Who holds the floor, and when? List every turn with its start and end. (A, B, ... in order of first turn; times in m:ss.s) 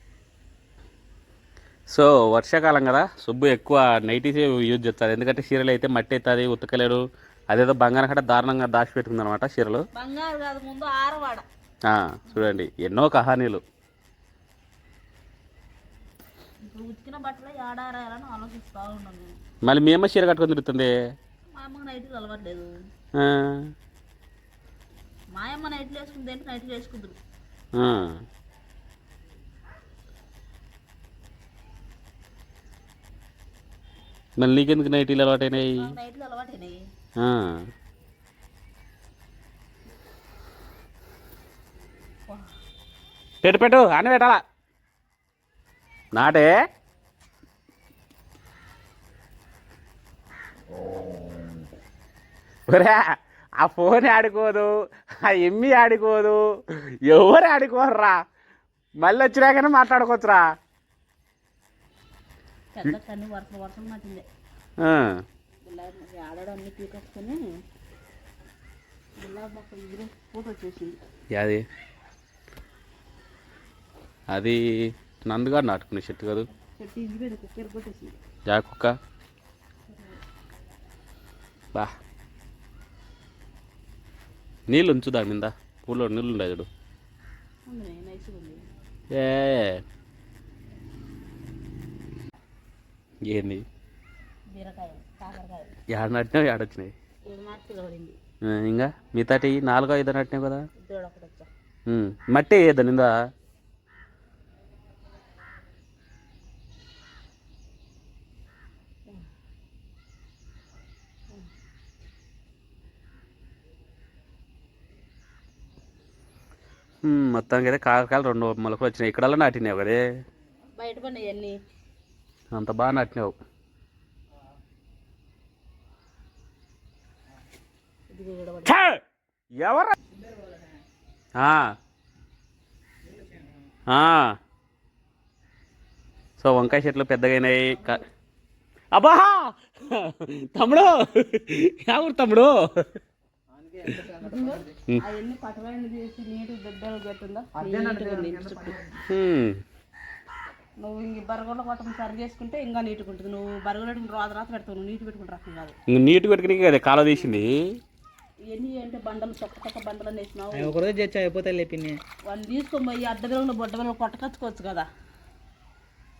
0:01.9-0:09.8 A
0:09.9-0:11.4 B
0:11.8-0:13.6 A
0:16.6-0:19.3 B
0:19.6-0:20.9 A
0:21.5-0:22.8 B
0:23.2-0:23.7 A
0:25.3-0:27.2 B
0:27.7-0:28.2 A
0:34.4-0:35.9 A
0:35.6-0:36.8 B
0:37.2-0:37.6 A
0:43.4-0:44.4 A
0:46.1-0:46.5 A
0:52.7-0:53.0 A
0:53.6-0:54.7 A
0:55.2-0:58.2 A
0:59.0-1:00.4 A
1:02.7-1:04.2 B
1:04.8-1:05.2 A
1:05.6-1:07.4 B
1:09.2-1:11.0 B
1:11.3-1:11.6 A
1:14.3-1:14.6 A
1:15.2-1:16.5 A
1:16.7-1:18.2 B
1:18.5-1:18.9 A
1:19.9-1:20.2 B
1:24.7-1:26.7 A
1:27.7-1:28.6 B
1:29.1-1:29.8 A
1:33.3-1:33.6 A
1:34.5-1:35.7 B
1:35.9-1:36.9 A
1:37.3-1:38.2 B
1:38.4-1:40.6 A
1:40.8-1:41.5 B
1:41.9-1:43.1 A
1:57.0-2:00.0 A
2:00.8-2:01.5 B
2:02.5-2:03.3 A
2:08.1-2:08.7 B
2:08.6-2:09.0 A
2:09.6-2:09.9 A
2:10.1-2:10.6 C
2:11.4-2:11.6 A
2:13.1-2:13.5 C
2:13.9-2:14.3 A
2:16.4-2:18.0 A
2:18.9-2:23.0 A
2:23.5-2:24.8 C
2:24.0-2:28.7 B
2:27.6-2:29.0 C
2:29.1-2:29.5 A
2:30.8-2:35.7 B
2:35.9-2:37.5 A
2:38.5-2:40.7 B
2:40.5-2:42.0 C
2:42.2-2:44.9 B